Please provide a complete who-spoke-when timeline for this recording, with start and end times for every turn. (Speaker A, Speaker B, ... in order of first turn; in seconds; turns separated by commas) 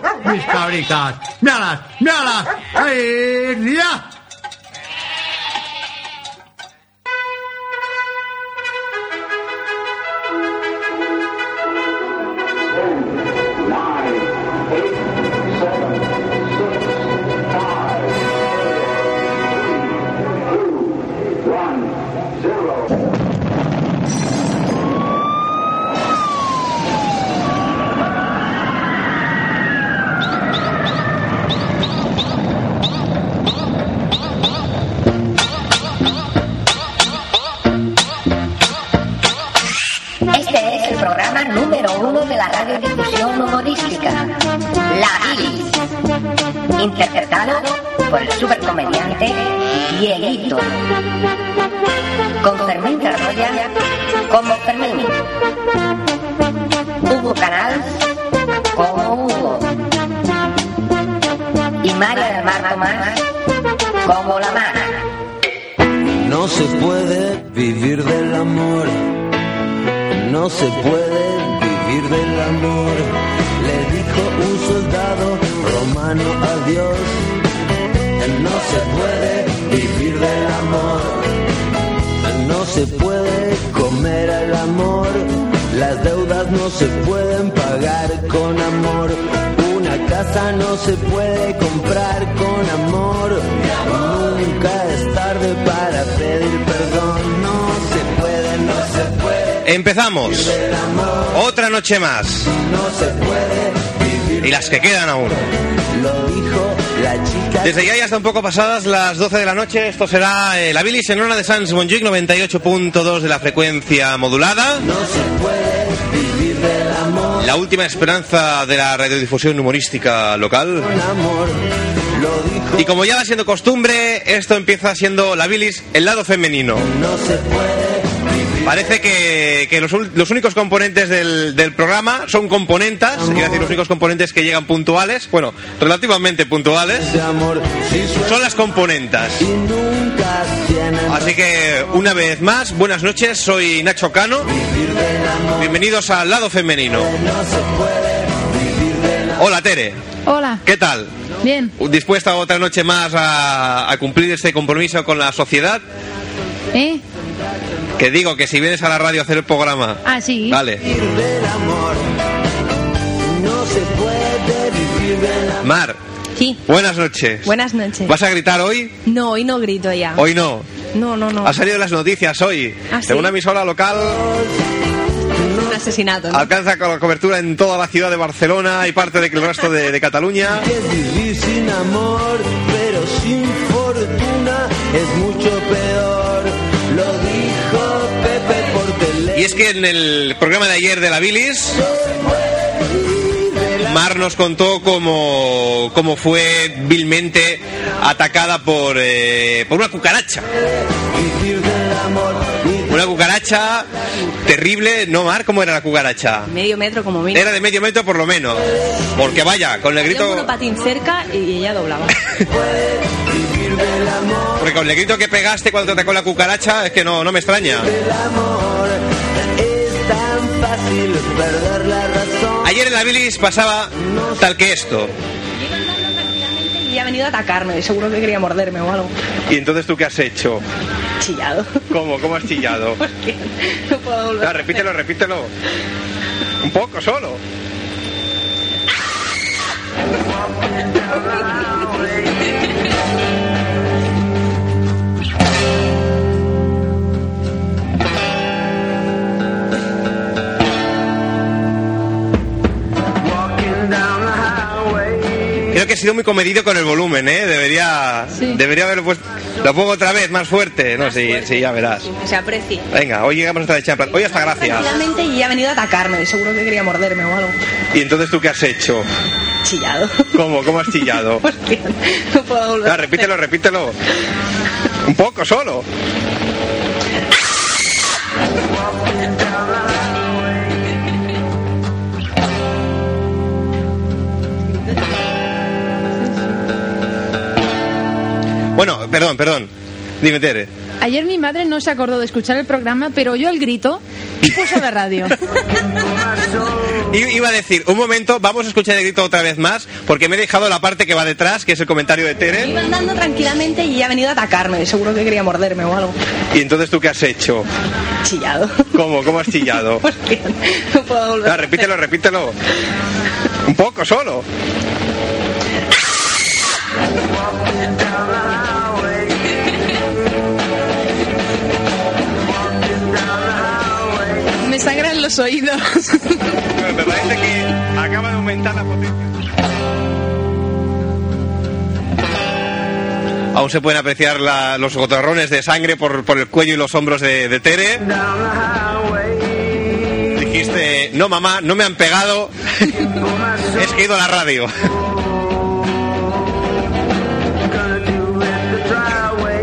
Speaker A: 0.2-4.1, Speaker B: 40.3-44.3, Speaker B: 44.9-45.8, Speaker B: 46.8-50.7, Speaker B: 52.4-53.7, Speaker B: 54.3-55.2, Speaker B: 57.0-58.0, Speaker B: 58.7-59.8, Speaker B: 61.8-63.3, Speaker B: 64.0-65.0, Speaker C: 66.2-69.1, Speaker C: 70.1-77.3, Speaker C: 78.2-81.4, Speaker C: 82.2-99.6, Speaker D: 99.6-100.5, Speaker C: 100.3-101.3, Speaker D: 101.3-102.5, Speaker C: 102.5-104.6, Speaker D: 104.4-105.4, Speaker C: 105.9-107.9, Speaker D: 107.6-114.8, Speaker C: 114.8-117.4, Speaker D: 117.4-120.9, Speaker C: 120.8-122.9, Speaker D: 122.8-126.9, Speaker C: 126.8-128.7, Speaker D: 128.6-137.1, Speaker C: 133.2-133.7, Speaker C: 137.0-138.5, Speaker D: 138.2-139.4, Speaker C: 139.4-141.3, Speaker D: 141.1-144.5, Speaker C: 144.5-145.7, Speaker D: 145.6-147.1, Speaker C: 147.0-149.4, Speaker D: 149.4-150.0, Speaker E: 150.2-150.6, Speaker D: 150.6-151.1, Speaker E: 151.4-151.7, Speaker D: 151.8-155.8, Speaker E: 156.7-157.0, Speaker D: 158.0-160.8, Speaker E: 160.0-160.6, Speaker C: 160.8-162.0, Speaker C: 163.2-165.6, Speaker D: 165.6-166.0, Speaker F: 166.3-166.6, Speaker D: 166.7-167.5, Speaker F: 167.4-168.2, Speaker D: 168.1-168.9, Speaker F: 169.0-170.2, Speaker D: 170.2-170.7, Speaker F: 170.9-171.6, Speaker D: 171.4-174.2, Speaker F: 172.9-173.3, Speaker C: 175.4-175.7, Speaker F: 175.5-176.5, Speaker D: 176.3-180.7, Speaker C: 180.6-189.6, Speaker D: 189.3-191.8, Speaker C: 192.1-193.9, Speaker D: 193.8-200.5, Speaker C: 201.1-202.9, Speaker D: 202.9-203.9, Speaker D: 204.4-206.5, Speaker F: 206.5-207.6, Speaker D: 207.3-208.6, Speaker D: 209.1-210.5, Speaker F: 210.0-212.1, Speaker C: 212.5-214.7, Speaker D: 214.6-217.9, Speaker C: 217.9-222.7, Speaker D: 222.6-225.1, Speaker C: 224.1-224.3, Speaker F: 225.6-229.1, Speaker D: 229.5-230.6, Speaker F: 231.2-231.8, Speaker D: 231.9-233.0, Speaker F: 233.0-234.9, Speaker D: 234.4-235.5, Speaker D: 236.6-237.4, Speaker D: 255.7-262.1, Speaker E: 258.3-258.6, Speaker F: 261.0-262.9, Speaker D: 262.9-264.9, Speaker F: 264.3-267.6, Speaker D: 267.9-269.1, Speaker F: 269.6-270.4, Speaker D: 270.3-271.4, Speaker F: 270.9-273.3, Speaker D: 272.8-274.0, Speaker D: 275.1-275.9, Speaker D: 288.7-290.7, Speaker E: 291.0-295.4, Speaker D: 297.1-302.7, Speaker F: 302.6-306.2, Speaker D: 306.5-307.7, Speaker F: 308.2-308.9, Speaker D: 308.9-310.0, Speaker F: 309.5-311.9, Speaker D: 311.4-312.6, Speaker D: 313.6-314.4, Speaker E: 324.6-326.4, Speaker D: 326.7-329.3, Speaker D: 333.5-338.1, Speaker D: 340.3-343.1, Speaker D: 343.7-344.7